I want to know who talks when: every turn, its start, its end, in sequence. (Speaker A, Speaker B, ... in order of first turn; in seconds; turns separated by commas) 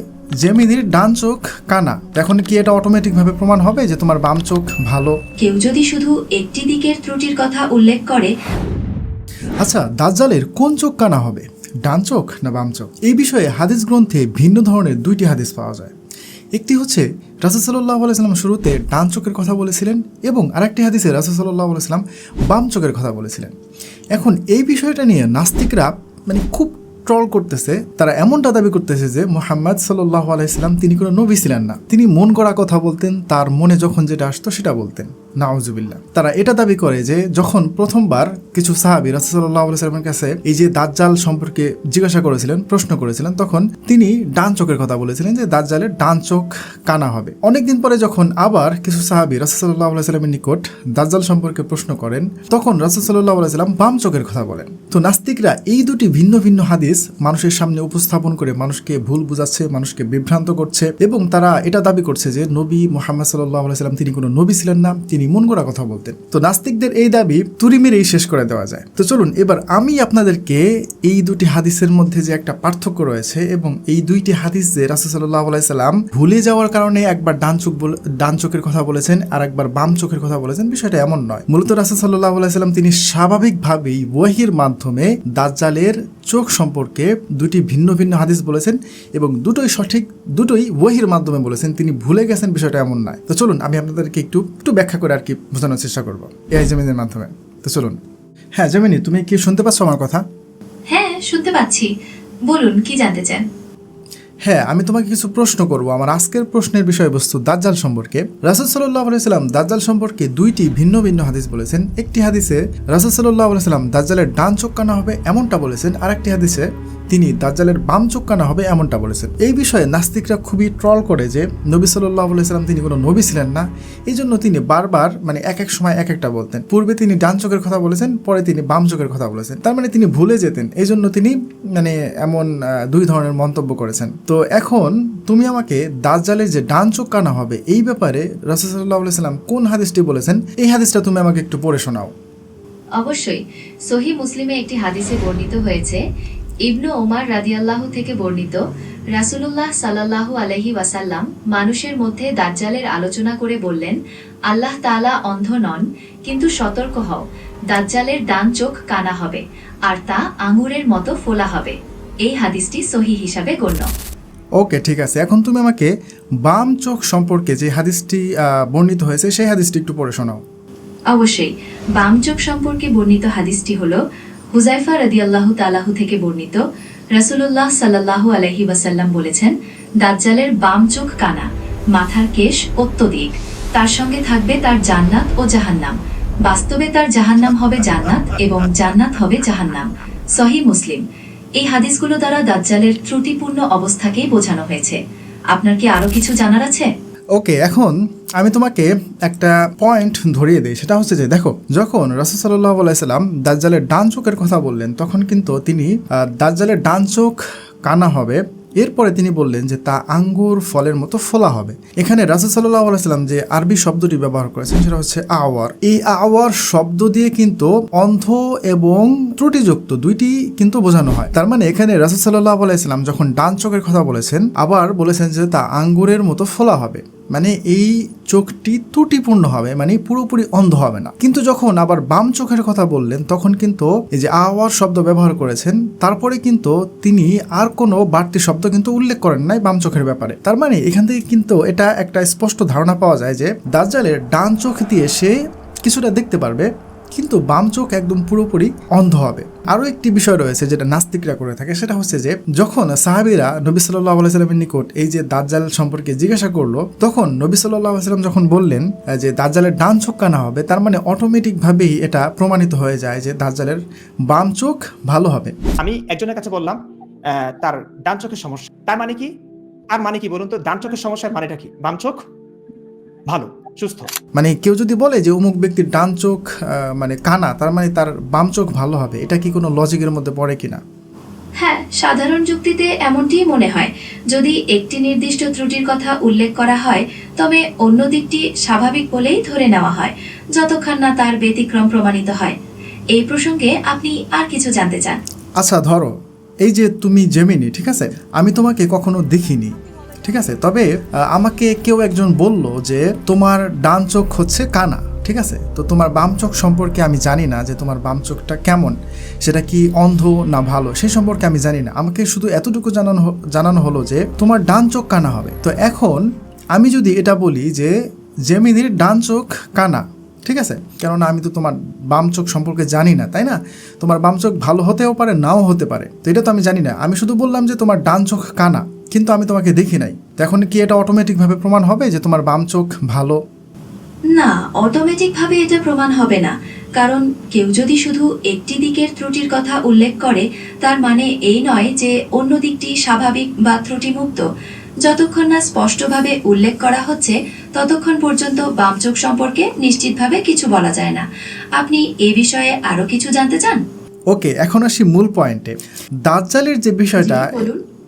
Speaker A: 0.4-5.1, Speaker B: 5.4-8.3, Speaker A: 9.6-15.9, Speaker A: 16.6-23.5, Speaker A: 24.1-98.0, Speaker A: 98.6-100.2, Speaker B: 100.9-101.9, Speaker B: 102.5-103.5, Speaker A: 104.5-142.1, Speaker B: 143.0-146.0, Speaker B: 146.7-148.6, Speaker B: 149.1-154.0, Speaker B: 154.5-163.9, Speaker A: 164.6-165.9, Speaker A: 166.4-170.4, Speaker B: 171.1-174.0, Speaker B: 174.5-176.6, Speaker B: 177.1-191.0, Speaker B: 191.6-195.0, Speaker B: 195.5-196.9, Speaker A: 197.4-265.5, Speaker C: 265.8-269.3, Speaker C: 269.9-272.2, Speaker C: 273.3-274.1, Speaker A: 274.4-280.8, Speaker B: 281.6-292.6, Speaker B: 293.1-295.2, Speaker A: 295.6-296.1, Speaker A: 296.6-317.9, Speaker A: 318.5-333.4, Speaker B: 334.3-344.5, Speaker B: 345.0-353.8, Speaker A: 354.3-355.7, Speaker A: 356.3-357.6, Speaker B: 357.1-357.8